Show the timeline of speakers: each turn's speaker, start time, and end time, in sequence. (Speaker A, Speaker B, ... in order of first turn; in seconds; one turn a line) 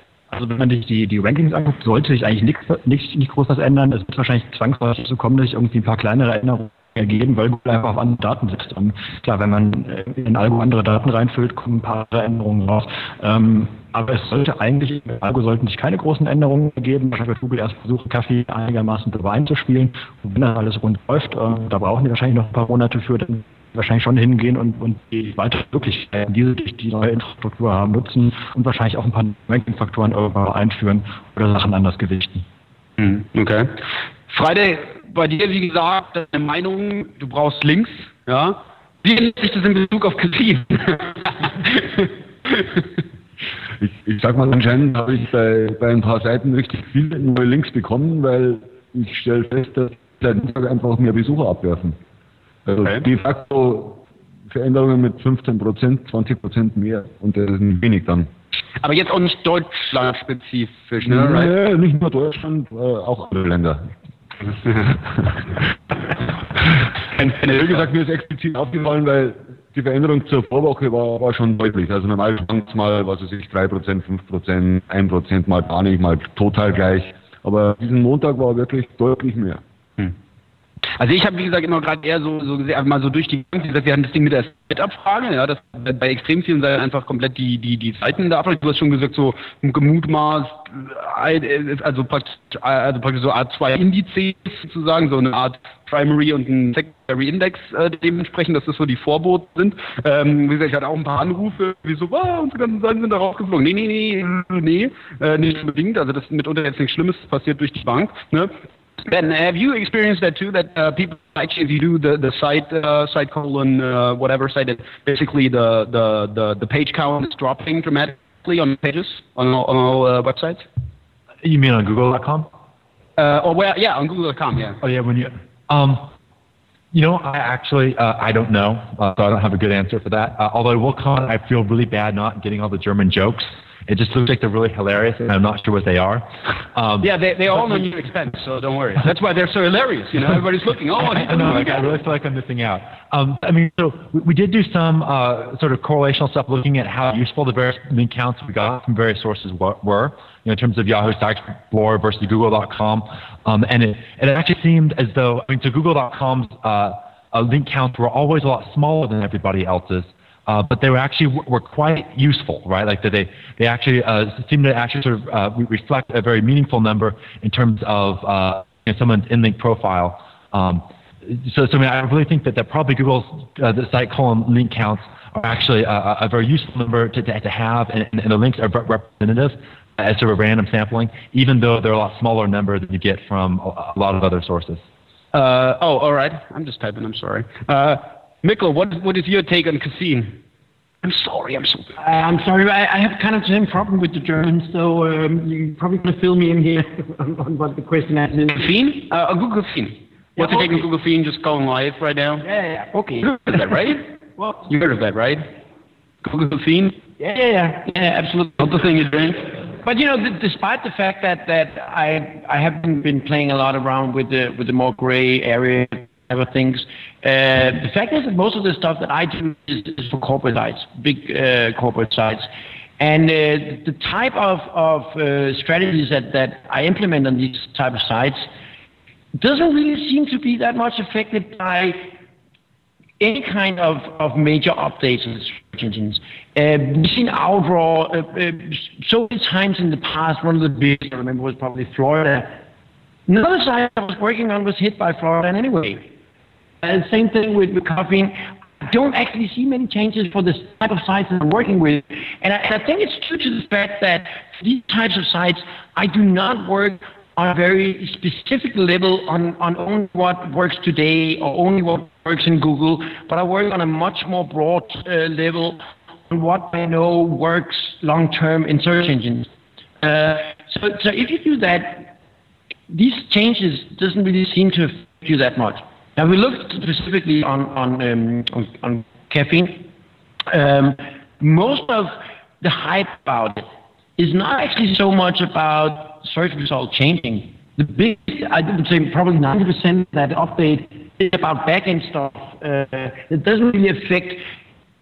Speaker A: 0.3-32.5
Speaker B: 33.0-33.8
Speaker B: 34.3-42.1
Speaker C: 43.8-52.0
Speaker C: 52.7-58.3
Speaker B: 58.8-61.5
Speaker C: 61.0-63.9
Speaker B: 67.2-67.8
Speaker C: 67.3-79.6
Speaker B: 81.0-108.5
Speaker B: 109.0-120.7
Speaker D: 121.4-122.5
Speaker B: 123.2-124.8
Speaker D: 124.8-126.1
Speaker D: 126.9-137.1
Speaker B: 137.0-141.9
Speaker D: 141.0-184.8
Speaker B: 185.3-190.4
Speaker B: 191.0-191.9
Speaker E: 192.0-198.7
Speaker B: 198.5-202.4
Speaker E: 200.4-200.7
Speaker E: 202.4-203.6
Speaker B: 203.2-205.4
Speaker B: 206.2-207.0
Speaker E: 207.2-208.7
Speaker B: 208.6-209.5
Speaker E: 209.7-222.5
Speaker E: 223.0-228.5
Speaker E: 229.4-232.1
Speaker E: 233.2-242.6
Speaker E: 243.3-246.1
Speaker E: 246.8-269.5
Speaker E: 270.0-272.1
Speaker E: 272.9-279.9
Speaker E: 280.5-283.6
Speaker E: 284.2-294.4